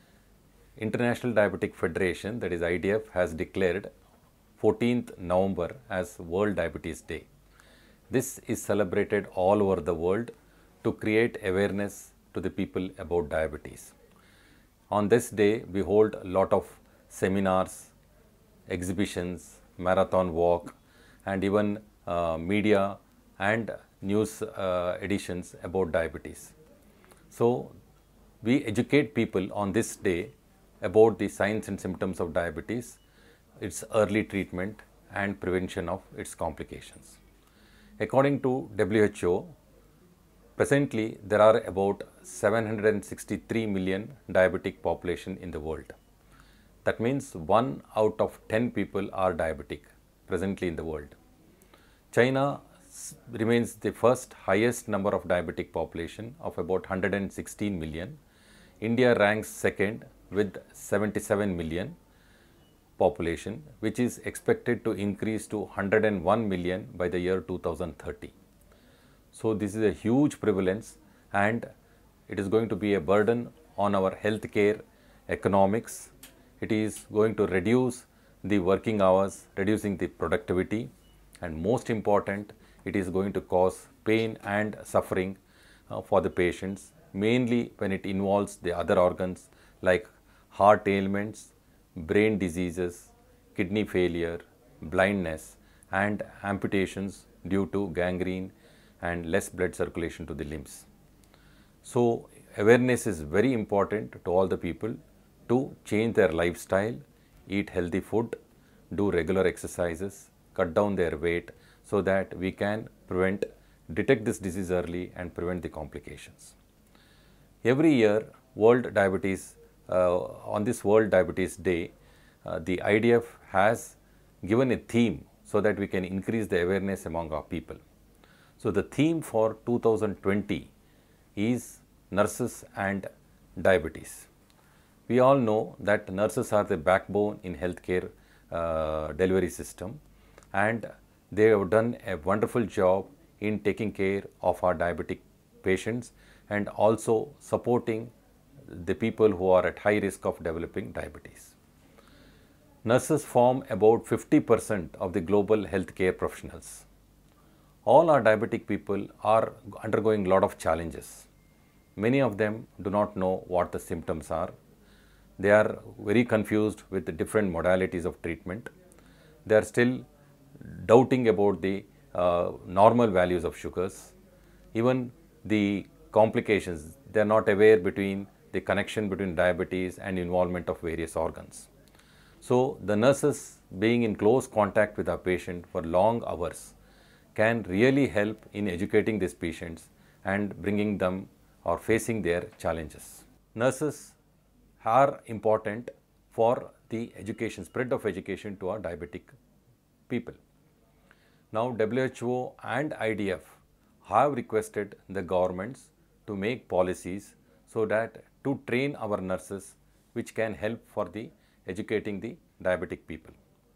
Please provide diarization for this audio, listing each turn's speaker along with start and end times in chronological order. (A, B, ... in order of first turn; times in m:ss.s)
0:00.8-0:03.9 A
0:04.6-0:07.3 A
0:08.1-0:13.9 A
0:14.9-0:17.9 A
0:18.7-0:26.5 A
0:27.3-0:27.7 A
0:28.4-0:33.0 A
0:33.6-0:37.2 A
0:38.0-0:39.5 A
0:40.6-0:45.9 A
0:46.8-0:51.2 A
0:52.1-0:58.2 A
0:58.8-1:02.0 A
1:03.0-1:08.3 A
1:09.3-1:11.7 A
1:12.3-1:20.9 A
1:21.4-1:25.4 A
1:25.9-1:40.8 A
1:41.8-1:48.3 A
1:48.9-1:56.5 A
1:57.6-2:01.9 A
2:02.4-2:07.8 A
2:08.6-2:10.7 A
2:11.4-2:14.3 A
2:15.1-2:20.0 A
2:20.5-2:28.1 A
2:28.7-2:31.5 A
2:32.8-2:36.8 A
2:37.8-2:41.3 A
2:42.0-2:44.5 A
2:45.4-2:48.7 A
2:49.4-2:50.0 A
2:50.6-2:54.1 A
2:54.7-3:01.7 A
3:02.4-3:06.7 A
3:07.3-3:14.2 A
3:14.8-3:19.3 A
3:20.1-3:20.4 A
3:21.5-3:33.4 A